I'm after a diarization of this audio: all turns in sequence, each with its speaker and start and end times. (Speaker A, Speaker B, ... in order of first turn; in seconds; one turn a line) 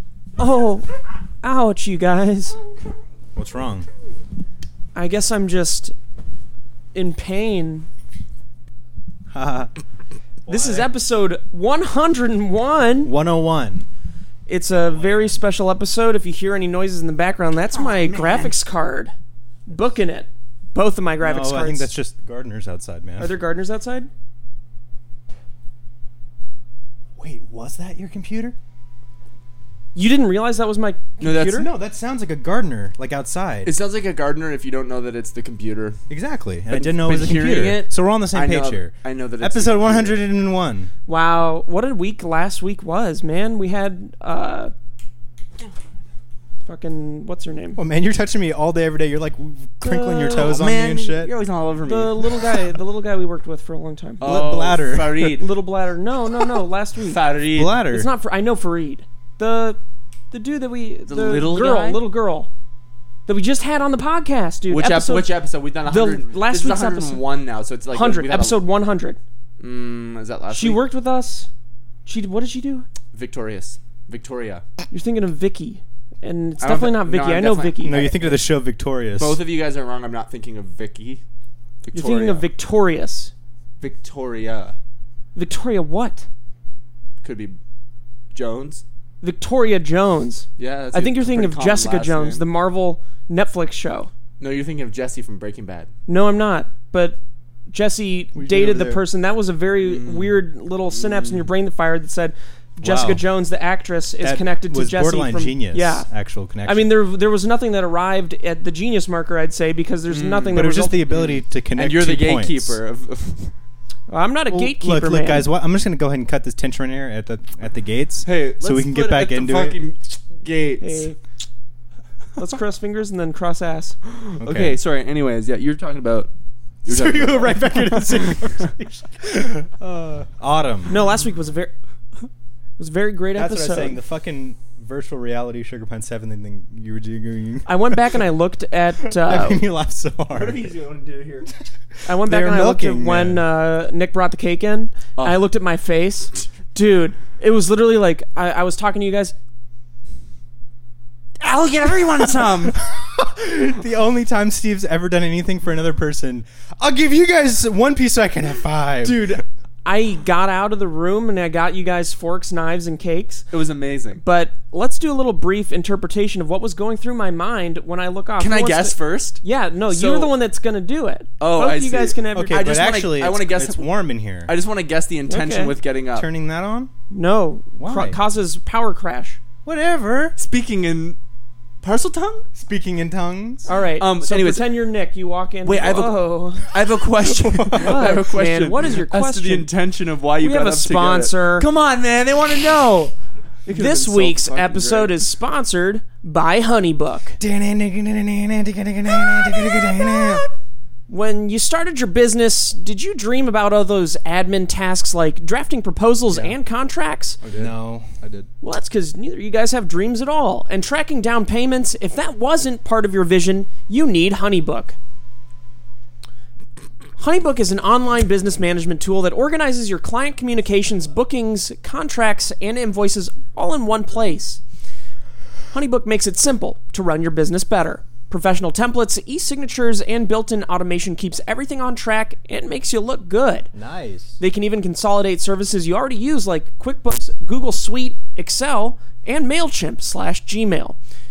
Speaker A: 0.4-0.9
Speaker A: 1.4-2.6
Speaker B: 3.4-3.9
Speaker A: 4.9-5.9
Speaker A: 6.9-7.9
Speaker B: 9.3-9.7
Speaker B: 10.5-10.9
Speaker A: 10.5-13.1
Speaker B: 13.1-13.9
Speaker A: 14.5-19.1
Speaker B: 14.8-15.4
Speaker C: 17.7-18.6
Speaker A: 19.7-21.9
Speaker B: 21.2-23.4
Speaker A: 23.2-24.1
Speaker B: 27.2-28.6
Speaker A: 29.9-31.7
Speaker C: 31.2-31.6
Speaker B: 31.4-33.7
Speaker C: 33.6-36.0
Speaker B: 36.1-40.9
Speaker C: 36.7-40.2
Speaker A: 41.1-44.7
Speaker A: 46.6-47.8
Speaker B: 47.8-51.3
Speaker A: 49.8-50.6
Speaker C: 50.4-52.5
Speaker A: 51.8-54.3
Speaker C: 54.2-55.5
Speaker B: 54.2-55.4
Speaker A: 55.2-57.2
Speaker C: 57.1-57.8
Speaker B: 57.5-58.1
Speaker A: 57.9-59.8
Speaker A: 60.3-62.5
Speaker C: 61.1-62.0
Speaker A: 63.3-67.2
Speaker C: 64.7-68.6
Speaker A: 67.9-69.2
Speaker C: 69.6-70.8
Speaker A: 70.5-71.5
Speaker A: 72.1-72.9
Speaker C: 73.1-74.6
Speaker A: 74.9-78.1
Speaker C: 76.6-78.5
Speaker B: 77.8-79.4
Speaker C: 79.2-81.2
Speaker C: 81.8-82.5
Speaker A: 81.9-83.3
Speaker C: 83.8-84.8
Speaker A: 85.3-86.3
Speaker C: 87.2-87.6
Speaker C: 88.3-88.8
Speaker A: 89.2-94.1
Speaker C: 90.6-92.5
Speaker C: 94.4-95.9
Speaker A: 96.1-97.2
Speaker A: 97.7-106.1
Speaker B: 98.3-99.0
Speaker C: 99.8-101.5
Speaker B: 102.8-103.2
Speaker B: 104.2-106.9
Speaker A: 106.6-111.0
Speaker C: 110.1-113.5
Speaker B: 110.5-112.8
Speaker A: 114.1-115.5
Speaker B: 114.5-119.8
Speaker C: 118.2-121.1
Speaker A: 120.8-121.2
Speaker A: 122.4-124.0
Speaker C: 124.1-126.3
Speaker B: 124.4-124.8
Speaker C: 126.9-128.7
Speaker B: 126.9-131.0
Speaker A: 130.9-131.7
Speaker A: 132.8-134.0
Speaker B: 133.3-138.2
Speaker A: 137.7-139.7
Speaker B: 139.0-140.7
Speaker C: 140.3-141.5
Speaker A: 142.1-149.3
Speaker B: 142.1-143.4
Speaker C: 151.4-152.8
Speaker B: 152.2-159.4
Speaker A: 159.0-163.5
Speaker C: 163.5-164.2
Speaker A: 164.2-172.7
Speaker C: 168.4-170.3
Speaker C: 171.4-173.9
Speaker B: 172.3-174.5
Speaker C: 174.5-176.3
Speaker A: 175.3-175.8
Speaker B: 176.1-176.9
Speaker A: 177.1-179.4
Speaker B: 177.8-178.2
Speaker B: 179.7-180.4
Speaker C: 180.4-181.2
Speaker C: 181.8-182.4
Speaker B: 182.6-183.7
Speaker A: 183.7-186.7
Speaker C: 183.9-184.7
Speaker C: 185.7-193.1
Speaker B: 187.2-188.1
Speaker A: 187.7-189.7
Speaker A: 190.4-191.7
Speaker C: 193.7-195.2
Speaker A: 193.7-197.4
Speaker B: 197.4-200.5
Speaker A: 201.1-207.4
Speaker C: 206.3-206.6
Speaker C: 207.4-208.5
Speaker B: 207.6-208.1
Speaker A: 208.6-215.0
Speaker A: 217.2-224.6
Speaker A: 225.7-233.7
Speaker B: 233.7-234.4
Speaker A: 234.4-241.0